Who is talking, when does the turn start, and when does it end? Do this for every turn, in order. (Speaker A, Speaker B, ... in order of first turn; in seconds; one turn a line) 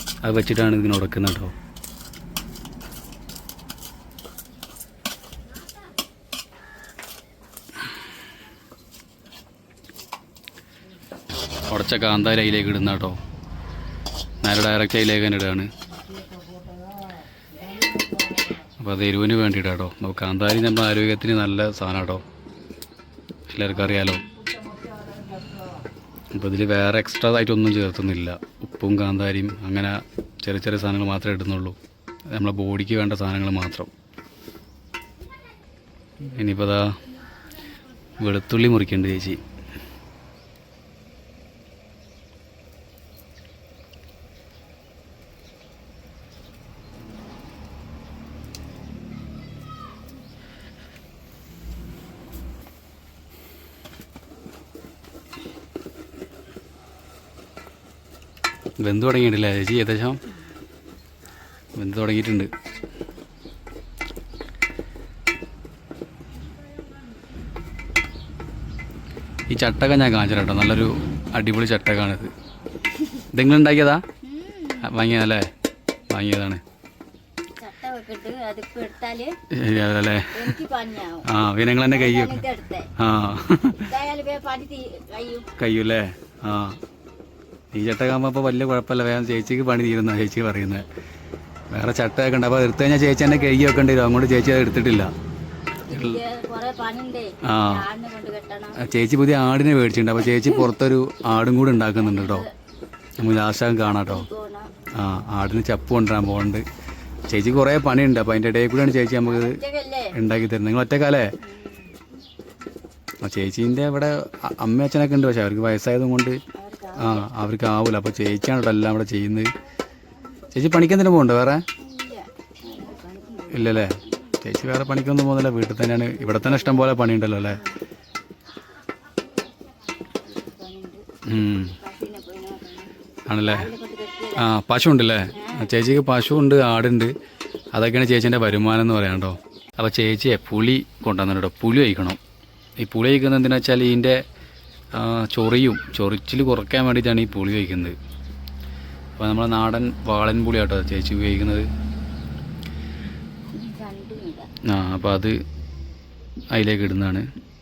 Speaker A: 0.2-1.5
Speaker A: 11.7-13.2
Speaker A: 14.4-15.7
Speaker A: 18.8-22.2
Speaker A: 23.5-24.2
Speaker A: 26.3-31.8
Speaker A: 32.3-33.9
Speaker A: 36.3-37.0
Speaker A: 38.2-39.4
Speaker A: 58.8-60.2
Speaker A: 61.8-62.5
Speaker A: 69.5-72.3
Speaker A: 73.3-74.0
Speaker B: 74.2-75.0
Speaker A: 74.8-75.5
Speaker A: 76.1-76.6
Speaker B: 77.6-79.3
Speaker A: 79.5-80.6
Speaker B: 80.3-81.3
Speaker A: 81.3-82.4
Speaker B: 81.9-82.9
Speaker A: 83.0-83.9
Speaker B: 83.8-85.5
Speaker A: 85.6-86.8
Speaker A: 87.7-90.9
Speaker A: 91.7-95.1
Speaker B: 95.9-98.8
Speaker A: 95.9-96.2
Speaker A: 97.4-97.8
Speaker A: 98.8-102.5
Speaker B: 102.0-102.5
Speaker A: 103.2-104.3
Speaker B: 104.1-104.7
Speaker A: 105.0-106.7
Speaker A: 107.3-109.6
Speaker B: 109.2-110.2
Speaker A: 110.1-111.3
Speaker B: 111.4-112.0
Speaker A: 113.2-116.4
Speaker B: 116.5-117.3
Speaker A: 117.0-119.5
Speaker A: 120.5-121.7
Speaker B: 121.8-124.1
Speaker A: 123.5-127.6
Speaker B: 126.4-127.0
Speaker B: 130.2-131.0
Speaker A: 131.3-131.8
Speaker B: 131.8-134.5
Speaker A: 133.3-133.7
Speaker A: 134.4-137.1
Speaker B: 135.3-135.8
Speaker A: 137.8-142.2
Speaker A: 142.8-144.2
Speaker A: 144.9-148.0
Speaker A: 149.2-151.7
Speaker B: 153.5-154.5
Speaker A: 154.7-155.4
Speaker A: 156.5-157.3